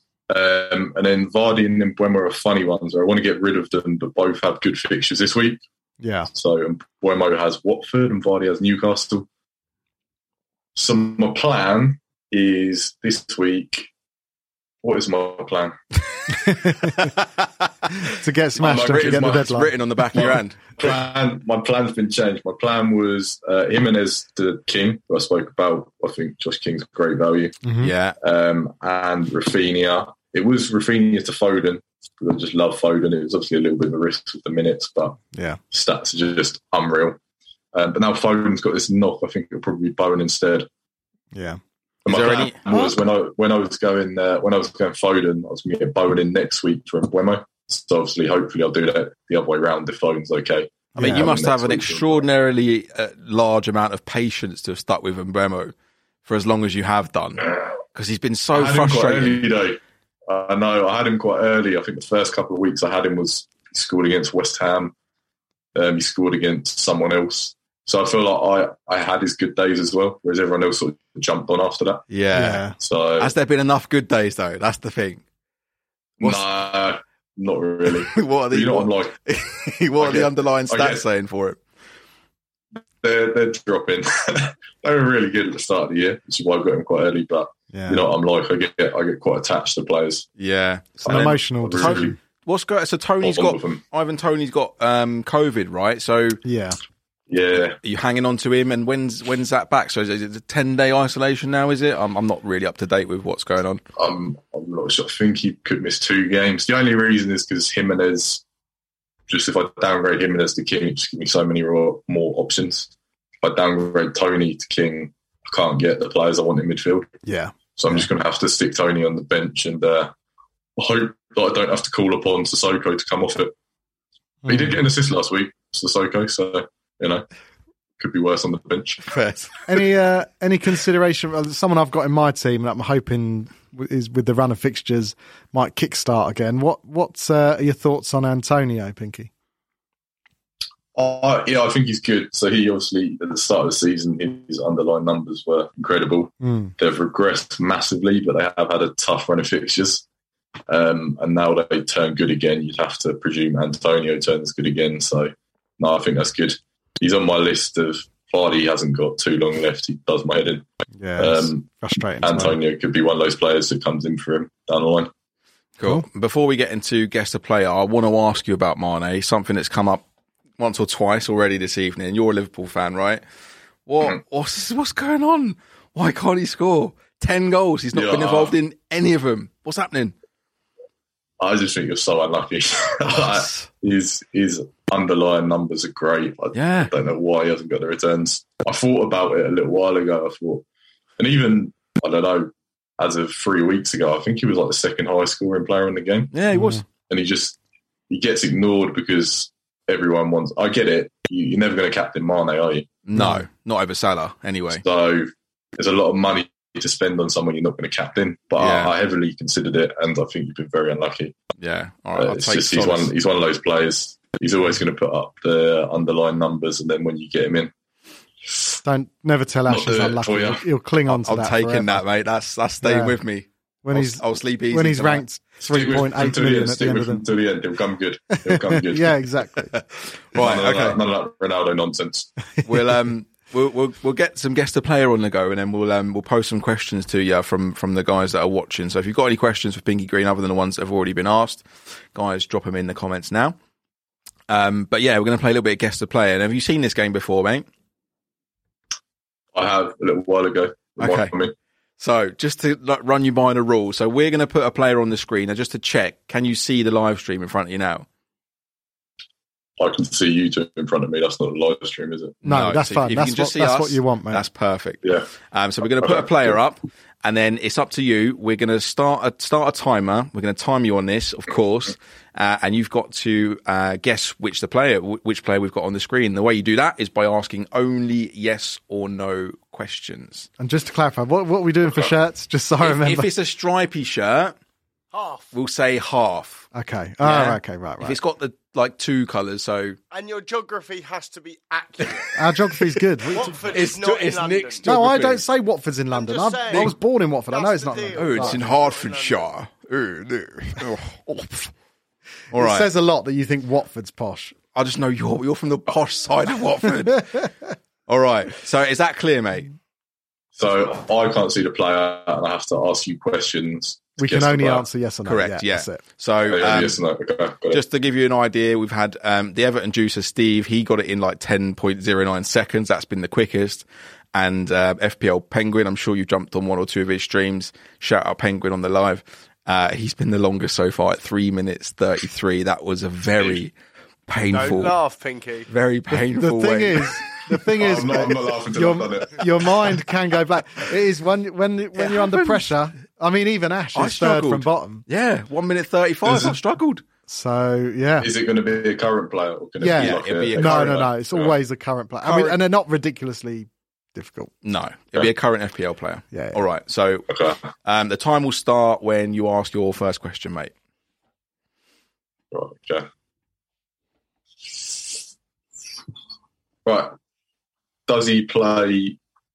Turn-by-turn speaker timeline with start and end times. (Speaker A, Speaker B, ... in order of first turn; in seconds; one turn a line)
Speaker A: 0.3-5.6
Speaker B: 6.0-6.3
Speaker A: 6.3-9.3
Speaker A: 10.8-13.9
Speaker A: 14.8-15.7
Speaker B: 16.3-17.1
Speaker B: 18.0-19.7
Speaker A: 18.6-27.6
Speaker C: 18.6-20.6
Speaker B: 27.6-27.9
Speaker C: 27.8-28.2
Speaker A: 28.2-35.2
Speaker B: 35.3-35.6
Speaker A: 35.7-37.2
Speaker A: 37.7-40.7
Speaker B: 41.3-41.6
Speaker A: 42.0-52.2
Speaker C: 42.1-42.6
Speaker B: 51.0-51.3
Speaker C: 51.0-55.7
Speaker C: 56.2-59.5
Speaker A: 58.5-64.9
Speaker A: 65.7-72.0
Speaker C: 72.1-72.6
Speaker B: 72.3-72.8
Speaker A: 72.8-73.3
Speaker C: 73.2-75.2
Speaker A: 76.2-79.2
Speaker C: 78.1-81.6
Speaker A: 80.0-81.0
Speaker A: 83.0-90.3
Speaker B: 87.7-88.0
Speaker C: 90.4-96.4
Speaker B: 91.0-92.2
Speaker A: 91.0-92.2
Speaker A: 93.2-93.8
Speaker B: 96.4-96.8
Speaker A: 97.3-97.8
Speaker C: 97.8-103.8
Speaker A: 104.0-108.4
Speaker A: 109.3-112.9
Speaker A: 113.4-117.1
Speaker B: 117.2-118.0
Speaker A: 117.8-120.1
Speaker A: 120.8-123.5
Speaker B: 124.5-124.8
Speaker A: 124.5-127.3
Speaker A: 128.0-129.1
Speaker C: 129.0-129.6
Speaker B: 129.7-139.3
Speaker A: 140.9-150.1
Speaker B: 146.4-146.7
Speaker A: 150.7-160.7
Speaker B: 161.0-162.6
Speaker A: 161.2-161.7
Speaker A: 162.2-165.1
Speaker C: 165.8-170.1
Speaker C: 170.6-173.2
Speaker C: 173.9-180.1
Speaker A: 177.9-178.6
Speaker A: 181.4-190.6
Speaker C: 183.1-183.7
Speaker C: 186.5-186.9
Speaker A: 191.2-196.3
Speaker C: 196.3-196.8
Speaker B: 196.5-196.8
Speaker A: 197.1-197.6
Speaker A: 198.1-202.9
Speaker C: 203.1-204.8
Speaker B: 203.1-203.4
Speaker A: 204.7-211.4
Speaker C: 208.6-208.9
Speaker C: 211.6-213.1
Speaker A: 212.2-217.7
Speaker B: 218.8-222.0
Speaker A: 219.7-220.6
Speaker C: 221.1-225.2
Speaker B: 222.8-223.2
Speaker B: 223.8-227.2
Speaker A: 225.6-229.2
Speaker B: 228.4-229.7
Speaker C: 229.7-231.0
Speaker A: 230.4-232.3
Speaker C: 232.6-243.6
Speaker C: 244.5-247.7
Speaker A: 249.6-251.5
Speaker C: 251.0-251.3
Speaker C: 252.0-258.1
Speaker A: 259.8-262.4
Speaker C: 262.4-280.5
Speaker B: 262.4-264.4
Speaker A: 265.9-266.6
Speaker B: 280.6-283.3
Speaker C: 282.8-284.6
Speaker D: 285.1-285.5
Speaker C: 285.5-286.7
Speaker B: 286.7-288.2
Speaker C: 287.2-290.0
Speaker D: 290.1-292.3
Speaker B: 292.4-293.6
Speaker D: 293.3-294.9
Speaker C: 293.7-295.4
Speaker B: 294.9-298.6
Speaker D: 296.1-296.9
Speaker C: 296.7-296.9
Speaker D: 297.5-299.5
Speaker C: 298.1-301.7
Speaker C: 302.5-302.9
Speaker B: 302.5-304.6
Speaker C: 304.7-307.5
Speaker C: 308.1-309.7
Speaker A: 310.6-314.9
Speaker B: 314.2-316.0
Speaker C: 315.3-317.0
Speaker A: 316.4-317.8
Speaker C: 317.7-333.7
Speaker C: 334.3-335.0
Speaker D: 334.5-335.7
Speaker C: 335.7-337.1
Speaker B: 336.1-345.1
Speaker A: 337.8-339.9
Speaker C: 341.9-342.7
Speaker C: 343.9-347.0
Speaker A: 346.2-346.6
Speaker B: 347.3-348.3
Speaker A: 348.2-351.6
Speaker B: 349.8-354.5
Speaker C: 349.9-351.1
Speaker C: 352.2-352.6
Speaker C: 354.6-357.3
Speaker B: 356.3-356.6
Speaker A: 357.3-357.6
Speaker C: 357.8-360.7
Speaker A: 362.5-363.1
Speaker A: 364.7-365.0
Speaker A: 366.9-367.2
Speaker A: 368.1-369.2